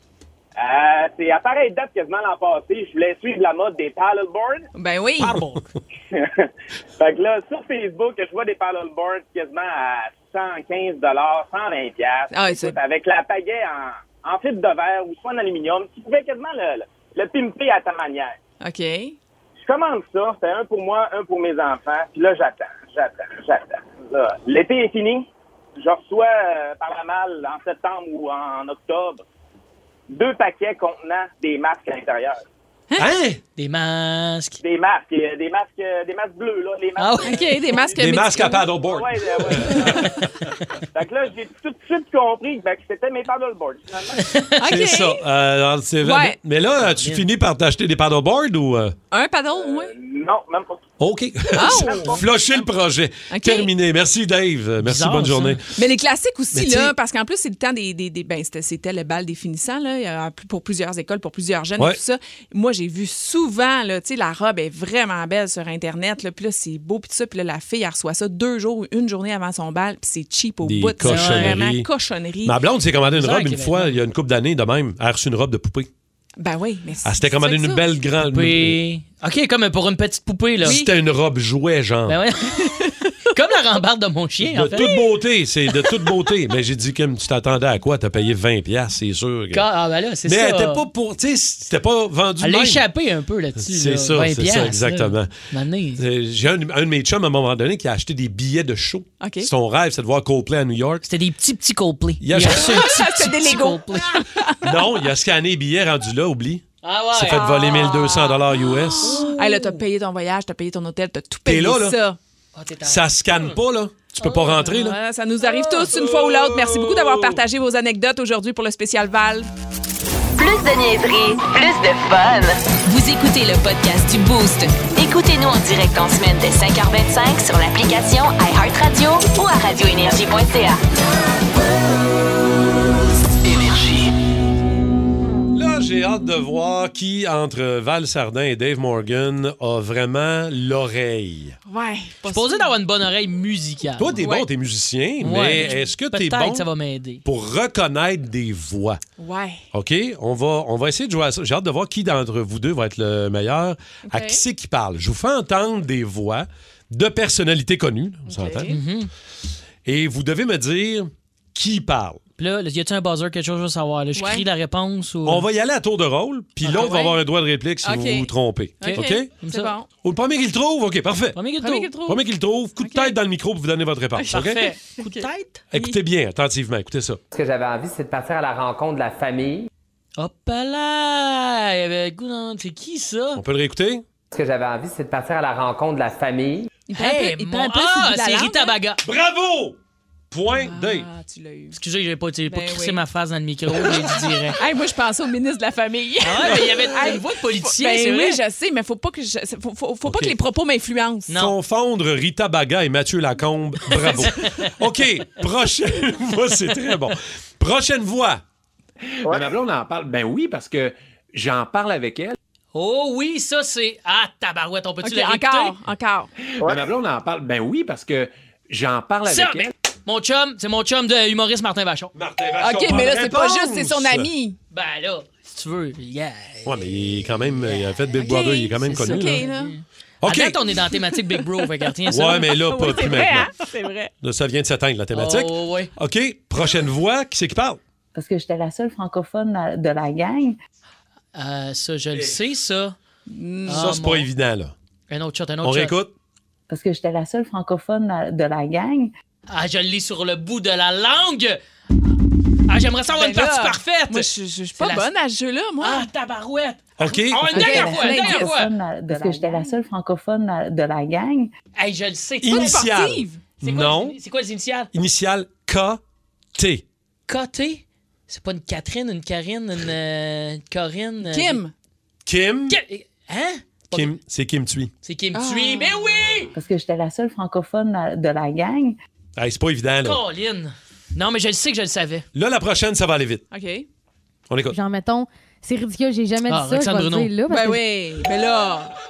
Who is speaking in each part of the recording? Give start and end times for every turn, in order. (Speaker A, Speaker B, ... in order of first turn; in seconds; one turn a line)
Speaker A: 0.6-4.7
Speaker B: 4.8-5.4
Speaker C: 5.2-5.7
Speaker A: 6.1-6.5
Speaker A: 7.0-18.4
Speaker B: 12.3-12.8
Speaker B: 18.6-19.2
Speaker A: 19.6-25.3
Speaker A: 25.8-29.2
Speaker A: 30.1-32.4
Speaker D: 33.0-33.4
Speaker C: 33.6-34.6
Speaker A: 34.6-38.0
Speaker C: 37.0-37.5
Speaker B: 37.2-38.7
Speaker D: 38.0-40.3
Speaker A: 38.8-40.0
Speaker B: 39.7-40.2
Speaker A: 40.9-44.3
Speaker C: 44.3-44.6
Speaker B: 44.6-45.2
Speaker D: 44.6-48.9
Speaker B: 46.0-46.4
Speaker C: 46.8-47.3
Speaker B: 49.1-49.9
Speaker A: 49.6-50.8
Speaker D: 51.0-55.6
Speaker B: 51.5-52.2
Speaker B: 53.3-53.7
Speaker C: 54.8-55.6
Speaker B: 55.8-72.6
Speaker D: 56.5-56.9
Speaker D: 70.6-71.9
Speaker C: 71.0-71.7
Speaker D: 72.5-75.9
Speaker C: 73.2-74.0
Speaker B: 76.4-77.9
Speaker D: 77.0-78.8
Speaker C: 78.3-80.8
Speaker D: 80.6-82.2
Speaker B: 80.7-80.9
Speaker C: 82.1-85.0
Speaker B: 82.6-83.1
Speaker D: 84.4-89.7
Speaker B: 84.8-85.1
Speaker C: 89.5-90.9
Speaker D: 90.2-92.9
Speaker C: 92.4-96.0
Speaker D: 93.6-95.3
Speaker D: 96.0-101.0
Speaker B: 99.2-99.5
Speaker C: 101.0-104.2
Speaker D: 102.2-102.9
Speaker B: 102.5-104.6
Speaker D: 104.6-109.3
Speaker C: 106.8-108.2
Speaker B: 107.3-112.2
Speaker C: 109.0-109.8
Speaker D: 111.5-112.0
Speaker C: 112.5-113.6
Speaker D: 112.8-115.0
Speaker C: 114.2-115.9
Speaker B: 114.7-119.5
Speaker D: 115.9-117.4
Speaker E: 120.4-130.8
Speaker D: 135.5-141.6
Speaker B: 141.7-142.7
Speaker C: 142.3-144.2
Speaker D: 144.0-146.7
Speaker B: 144.2-144.5
Speaker C: 145.2-147.2
Speaker D: 147.2-149.0
Speaker B: 149.2-149.6
Speaker D: 149.7-158.7
Speaker B: 154.1-154.4
Speaker B: 158.3-158.8
Speaker C: 158.7-159.1
Speaker D: 159.8-162.2
Speaker C: 162.4-165.5
Speaker B: 164.2-164.4
Speaker D: 165.2-169.3
Speaker C: 166.6-167.1
Speaker B: 166.7-167.2
Speaker B: 167.8-169.9
Speaker C: 168.8-169.7
Speaker D: 170.0-171.4
Speaker C: 171.3-171.9
Speaker B: 171.6-172.2
Speaker D: 172.1-174.6
Speaker B: 172.8-173.2
Speaker B: 174.2-176.0
Speaker C: 174.3-175.6
Speaker D: 175.7-177.2
Speaker F: 177.3-179.7
Speaker C: 180.2-183.4
Speaker D: 183.4-184.0
Speaker F: 184.3-186.7
Speaker B: 186.9-188.8
Speaker C: 186.9-189.0
Speaker D: 189.0-189.8
Speaker D: 190.3-191.1
Speaker B: 190.6-191.8
Speaker C: 191.7-194.6
Speaker B: 192.5-193.0
Speaker B: 193.8-201.3
Speaker C: 196.2-198.4
Speaker C: 201.3-201.6
Speaker D: 201.3-208.4
Speaker C: 204.0-204.7
Speaker G: 209.2-212.4
Speaker C: 212.7-215.8
Speaker B: 215.0-216.3
Speaker G: 216.4-219.7
Speaker C: 219.3-222.1
Speaker D: 222.1-224.3
Speaker B: 222.6-224.6
Speaker C: 224.7-228.0
Speaker D: 226.7-229.5
Speaker B: 228.2-229.7
Speaker C: 228.8-233.0
Speaker D: 230.2-230.6
Speaker B: 231.3-231.7
Speaker D: 232.1-233.5
Speaker B: 232.5-234.1
Speaker D: 234.2-237.8
Speaker C: 235.1-235.9
Speaker H: 238.2-240.6
Speaker C: 241.3-243.0
Speaker B: 243.3-244.0
Speaker C: 243.7-244.3
Speaker D: 243.8-244.7
Speaker C: 245.1-246.0
Speaker D: 245.6-246.1
Speaker H: 246.7-249.1
Speaker C: 249.5-251.6
Speaker C: 252.7-255.1
Speaker B: 253.1-256.1
Speaker C: 255.8-258.7
Speaker D: 257.0-257.9
Speaker H: 257.4-261.5
Speaker B: 257.5-258.6
Speaker B: 259.1-259.8
Speaker C: 261.8-262.9
Speaker D: 262.4-264.2
Speaker B: 262.5-263.4
Speaker C: 263.6-264.9
Speaker D: 264.9-266.0
Speaker D: 266.6-266.8
Speaker C: 267.3-271.6
Speaker B: 271.2-271.7
Speaker D: 272.3-272.8
Speaker C: 272.7-274.1
Speaker D: 273.9-274.9
Speaker C: 275.0-276.5
Speaker B: 275.3-276.0
Speaker H: 276.6-279.0
Speaker D: 279.4-280.2
Speaker C: 280.0-282.3
Speaker D: 282.4-283.4
Speaker B: 283.5-283.9
Speaker D: 284.5-284.8
Speaker I: 284.7-287.8
Speaker C: 286.5-287.3
Speaker B: 287.5-288.9